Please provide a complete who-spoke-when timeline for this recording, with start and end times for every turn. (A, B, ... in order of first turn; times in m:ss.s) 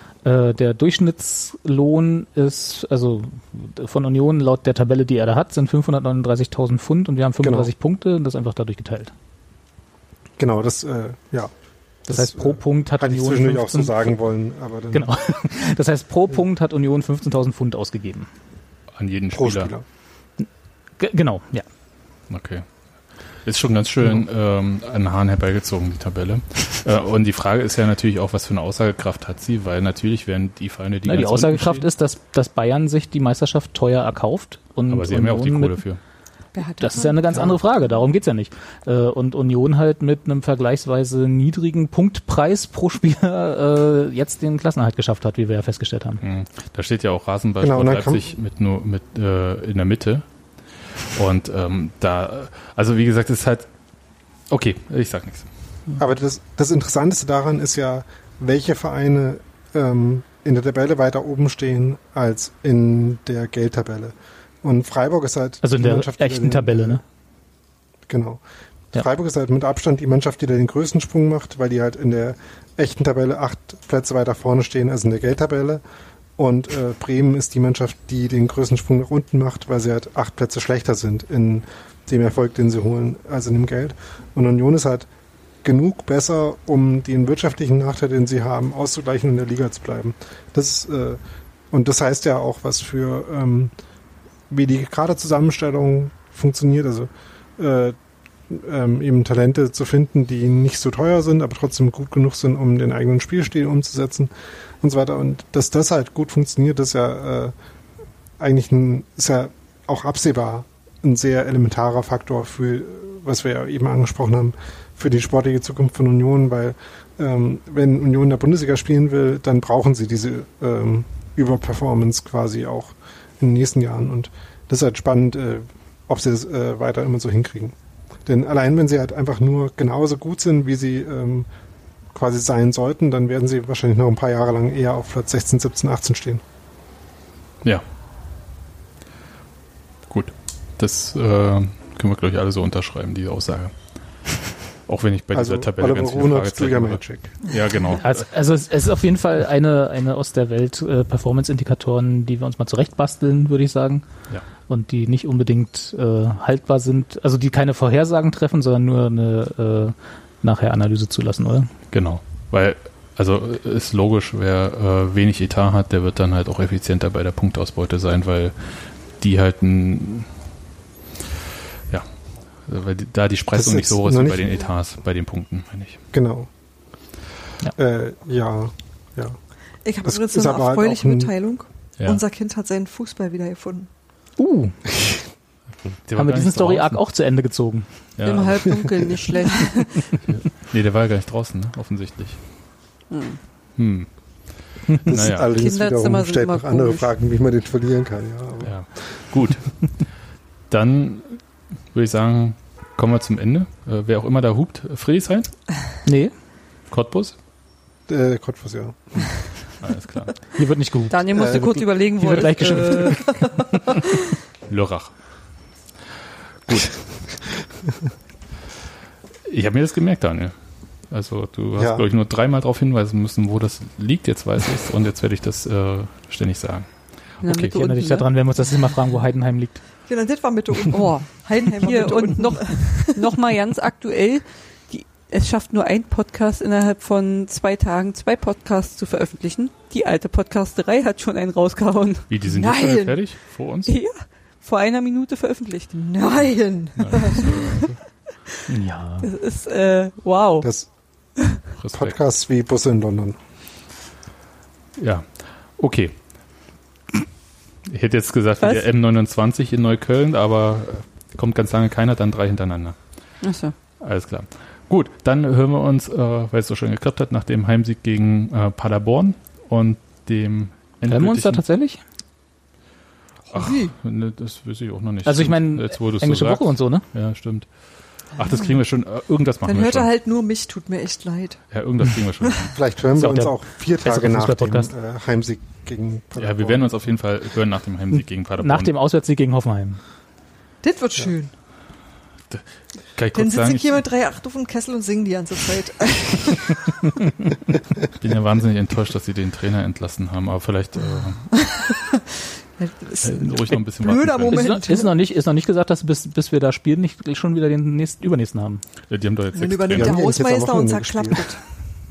0:00.2-0:09.1 A
0:07.4-0:07.7 B
0:10.4-0:11.5 B
0:12.0-0:15.1 B
0:12.1-0:14.1 A
0:14.9-0:18.3 A
0:19.0-0:19.7 C
0:19.3-0:19.8 B
0:21.0-0:21.7 A
0:22.3-0:22.7 C
0:23.4-0:31.9 C
0:31.1-0:35.8 A
0:34.9-0:36.0 C
0:36.5-0:37.5 D
0:36.8-0:46.2 A
0:46.2-0:50.2 C
0:47.6-0:48.3 B
0:51.1-0:53.7 C
0:54.5-0:55.5 C
0:56.0-1:07.0 B
1:05.6-1:07.0 A
1:08.1-1:08.4 B
1:08.9-1:15.8 B
1:16.4-1:25.1 B
1:25.6-1:31.2 B
1:31.7-1:33.7 B
1:34.5-1:38.0 B
1:38.5-1:47.5 B
1:48.4-2:07.8 B
2:08.3-2:11.5 B
2:12.1-2:16.4 B
2:20.1-2:23.8 C
2:24.9-2:28.3 C
2:25.3-2:27.4 B
2:28.0-2:34.1 A
2:34.6-2:41.7 A
2:41.9-2:50.3 C
2:51.9-2:56.0 C
2:53.5-2:54.4 B
2:56.1-2:56.5 B
2:57.8-2:59.4 B
2:59.8-3:03.9 D
3:00.0-3:01.3 B
3:04.4-3:04.8 A
3:06.0-3:07.0 C
3:06.2-3:08.0 A
3:08.2-3:08.9 C
3:08.2-3:10.2 E
3:10.1-3:12.5 C
3:13.1-3:13.4 E
3:13.8-3:15.5 C
3:15.1-3:18.8 B
3:15.4-3:17.1 E
3:18.6-3:20.2 C
3:20.7-3:25.7 C
3:26.0-3:26.3 A
3:26.9-3:27.4 C
3:28.1-3:29.5 B
3:29.8-3:30.5 C
3:30.6-3:33.3 A
3:31.1-3:33.6 E
3:31.3-3:31.8 B
3:34.7-3:35.6 C
3:36.7-3:37.1 C
3:39.5-3:47.4 C
3:41.8-3:42.1 B
3:47.4-3:48.3 E
3:47.4-3:49.8 A
3:50.1-3:53.2 D
3:50.9-4:02.3 E
4:02.3-4:03.9 C
4:02.4-4:03.2 D
4:03.8-4:06.0 E
4:05.9-4:07.8 D
4:07.0-4:08.0 C
4:07.1-4:07.8 E
4:08.7-4:09.3 A
4:09.2-4:11.6 E
4:10.6-4:10.9 B
4:11.8-4:12.2 C
4:11.9-4:13.4 B
4:15.0-4:16.6 C
4:17.9-4:23.4 C
4:23.4-4:23.8 E
4:24.0-4:31.6 C
4:31.1-4:32.0 A
4:33.5-4:33.9 D
4:33.5-4:40.1 C
4:35.2-4:37.0 A
4:39.6-4:41.7 D
4:41.7-4:42.8 C
4:42.7-4:46.9 B
4:43.2-4:44.9 A
4:46.4-4:48.9 C
4:48.1-4:50.0 A
4:50.8-4:51.5 D
4:52.5-4:54.0 C
4:53.3-4:56.9 D
4:58.1-5:01.5 C
5:01.5-5:02.2 D
5:02.8-5:05.1 D
5:03.2-5:04.8 C
5:04.5-5:08.8 A
5:09.1-5:10.3 C
5:09.6-5:11.6 D
5:09.9-5:11.5 B